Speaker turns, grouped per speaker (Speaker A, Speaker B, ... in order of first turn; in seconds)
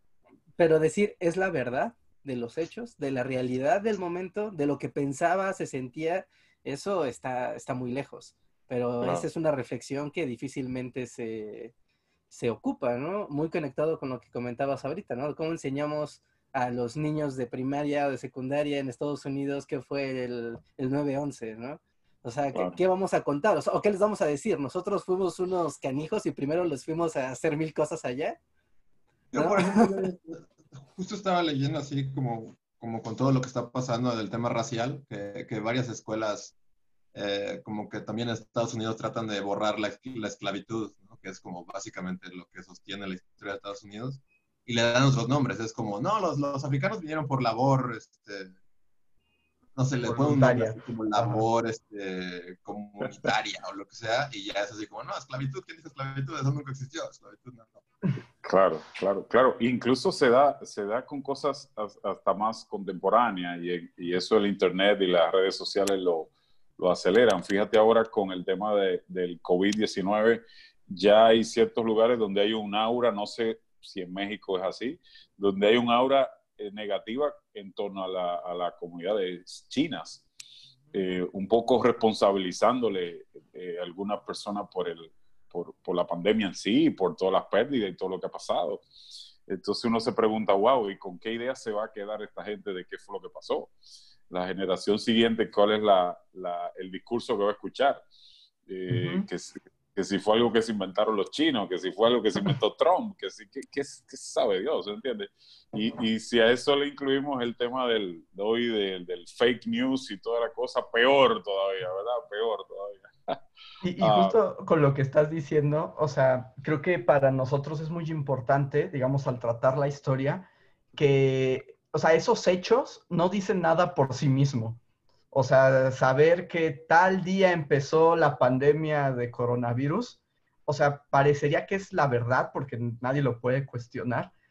Speaker A: 0.6-11.7, 12.3-28.4, 29.4-30.1
Speaker B: 9.0-9.3, 58.4-80.2, 80.9-88.8, 89.5-93.7, 94.3-98.0, 98.7-113.4, 114.0-114.4
Speaker C: 29.3-36.5, 37.1-48.5, 49.8-57.8
Speaker D: 50.0-51.5, 98.9-99.3, 113.8-124.8, 125.3-134.3